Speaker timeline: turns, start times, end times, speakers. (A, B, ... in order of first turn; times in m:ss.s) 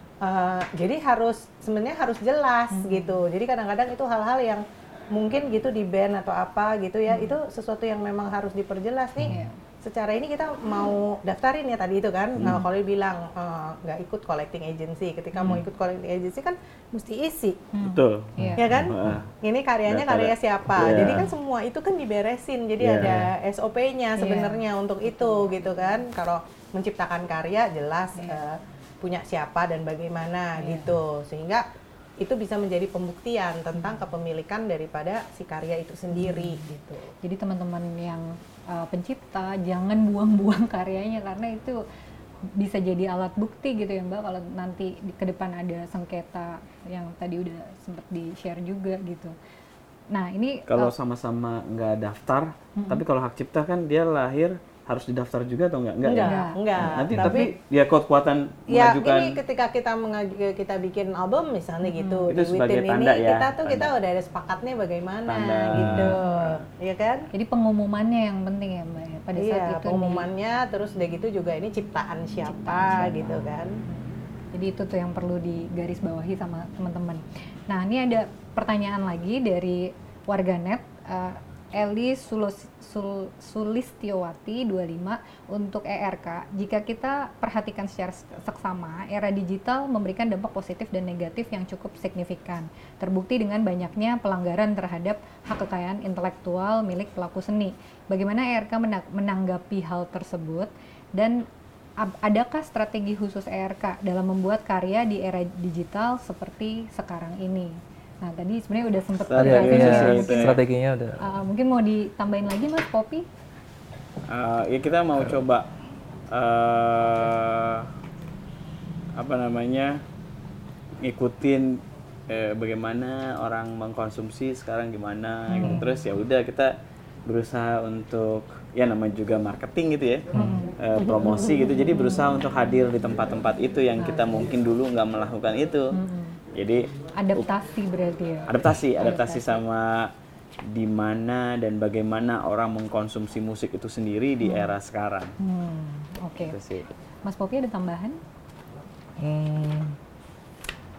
0:00.2-0:17.7 A
0:02.7-0:03.2 B
0:07.1-0:07.4 B
0:09.2-0:09.6 B
0:15.4-0:15.6 B
0:17.7-0:18.7 B
0:17.8-0:19.3 C
0:18.6-0:31.7 A
0:19.9-0:21.3 C
0:22.8-0:23.3 C
0:24.2-0:26.0 B
0:28.2-0:28.4 B
0:30.6-0:31.0 B
0:32.2-0:37.1 A
0:36.2-0:36.6 B
0:37.2-0:41.8 B
0:42.6-0:49.4 B
0:50.1-0:50.9 B
0:50.7-0:59.4 C
0:52.8-0:53.0 B
0:56.0-0:57.5 A
0:56.2-0:57.5 B
0:58.7-1:07.3 A
1:01.8-1:02.3 B
1:02.3-1:03.9 C
1:05.3-1:06.3 C
1:05.8-1:06.3 B
1:07.3-1:10.3 B
1:09.4-1:13.8 A
1:12.4-1:41.5 B
1:42.0-1:50.5 B
1:49.3-1:50.6 C
1:49.4-1:51.2 D
1:51.2-1:53.3 B
1:54.3-1:55.7 C
1:56.3-1:57.9 C
1:59.2-2:00.0 C
2:01.0-2:06.7 C
2:05.5-2:06.0 B
2:07.3-2:15.9 C
2:10.3-2:10.8 B
2:14.0-2:14.5 B
2:15.9-2:16.4 B
2:16.5-2:17.5 C
2:17.2-2:19.6 B
2:18.5-2:20.1 C
2:20.6-2:25.4 C
2:24.4-2:24.7 B
2:25.4-2:26.6 B
2:26.4-2:26.9 C
2:27.2-2:28.2 B
2:29.2-2:30.0 D